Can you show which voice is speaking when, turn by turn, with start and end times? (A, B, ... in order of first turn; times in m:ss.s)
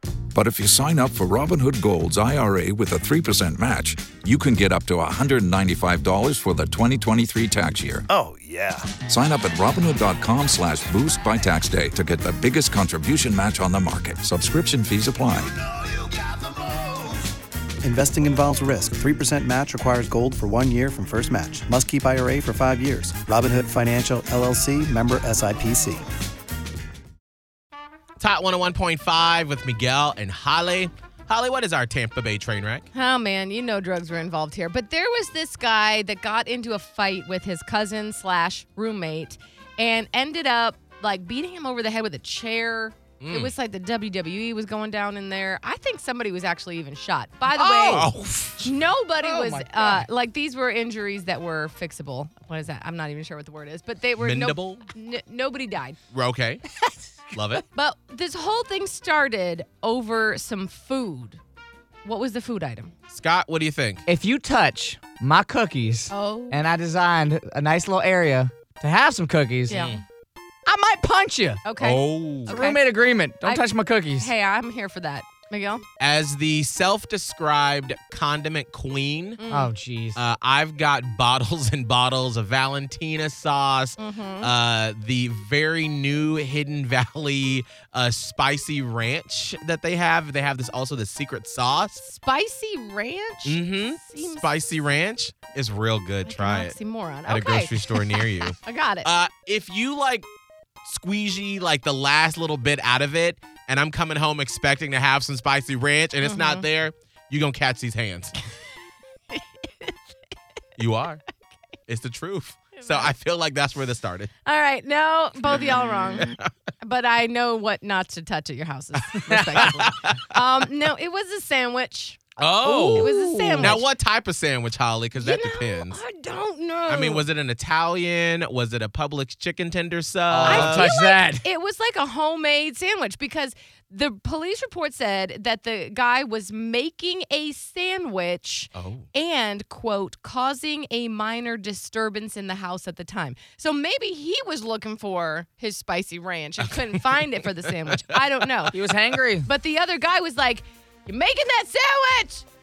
0:00.3-0:08.0 A
0:08.1-0:08.9 B
0:09.0-0:15.5 A
0:17.8-0:26.0 B
0:28.2-0:32.9 C
0:32.9-0:56.0 D
0:43.2-0:43.5 C
0:47.6-0:48.1 A
0:47.6-0:48.7 C
0:49.2-0:50.0 A
0:54.2-0:54.8 C
0:56.1-0:56.6 C
0:57.3-0:57.6 C
0:57.7-1:01.4 D
1:02.0-1:02.9 D
1:03.1-1:04.0 C
1:04.1-1:05.9 E
1:04.1-1:06.8 A
1:06.1-1:06.6 D
1:06.5-1:09.6 E
1:07.4-1:09.7 A
1:09.7-1:10.0 D
1:09.7-1:10.0 C
1:10.7-1:11.6 A
1:11.6-1:12.8 D
1:11.8-1:12.6 C
1:12.4-1:14.3 A
1:12.8-1:13.3 E
1:13.4-1:15.8 D
1:16.0-1:19.4 C
1:19.4-1:19.7 D
1:19.5-1:20.2 A
1:20.1-1:32.0 C
1:24.0-1:24.5 D
1:32.0-1:34.5 D
1:33.4-1:40.3 C
1:36.2-1:39.1 D
1:40.8-1:48.3 C
1:46.2-1:46.7 D
1:50.8-1:51.2 C
1:51.9-1:54.3 C
1:52.8-1:53.1 D
1:54.4-2:03.8 D
1:55.5-1:56.4 C
1:59.5-2:00.2 C
2:02.4-2:06.0 C
2:02.6-2:03.8 A
2:05.2-2:07.2 D
2:06.9-2:10.9 C
2:10.3-2:11.4 A
2:10.4-2:28.8 D
2:18.8-2:19.1 C
2:26.7-2:27.1 C
2:28.7-2:29.5 A
2:29.4-2:32.4 D